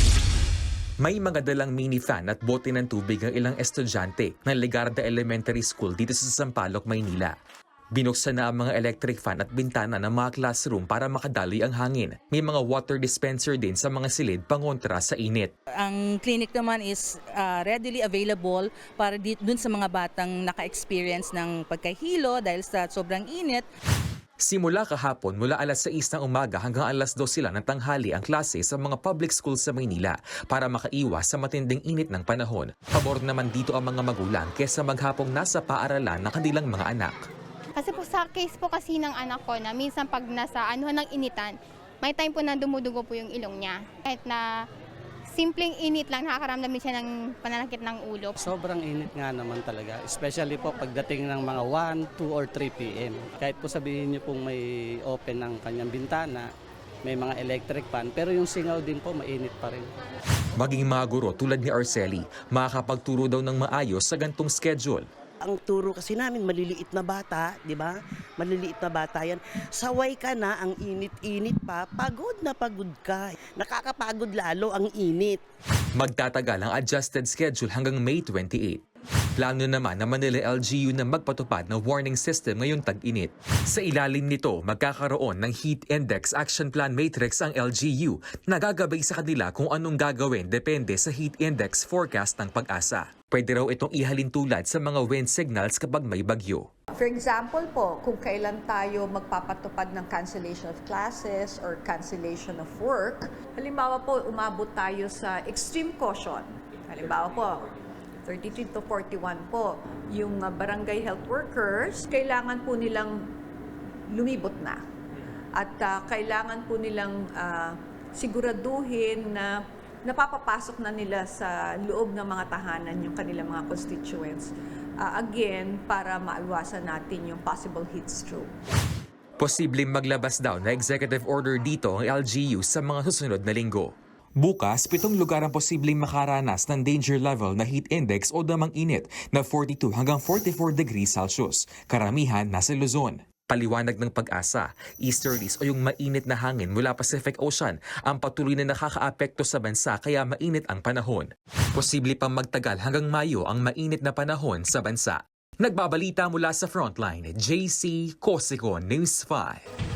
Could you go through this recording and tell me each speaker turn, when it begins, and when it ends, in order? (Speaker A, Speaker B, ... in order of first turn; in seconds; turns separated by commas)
Speaker A: 1.0-7.3, Speaker A: 7.9-15.5, Speaker B: 15.8-23.6, Speaker A: 24.4-37.2, Speaker C: 37.7-44.4, Speaker C: 45.3-48.4, Speaker D: 48.4-56.5, Speaker D: 57.0-59.9, Speaker A: 60.6-65.0, Speaker E: 65.4-75.4, Speaker A: 75.9-78.8, Speaker A: 79.4-96.7, Speaker F: 97.0-107.7, Speaker F: 108.2-113.2, Speaker F: 114.1-114.8, Speaker F: 115.5-128.5, Speaker A: 129.4-159.6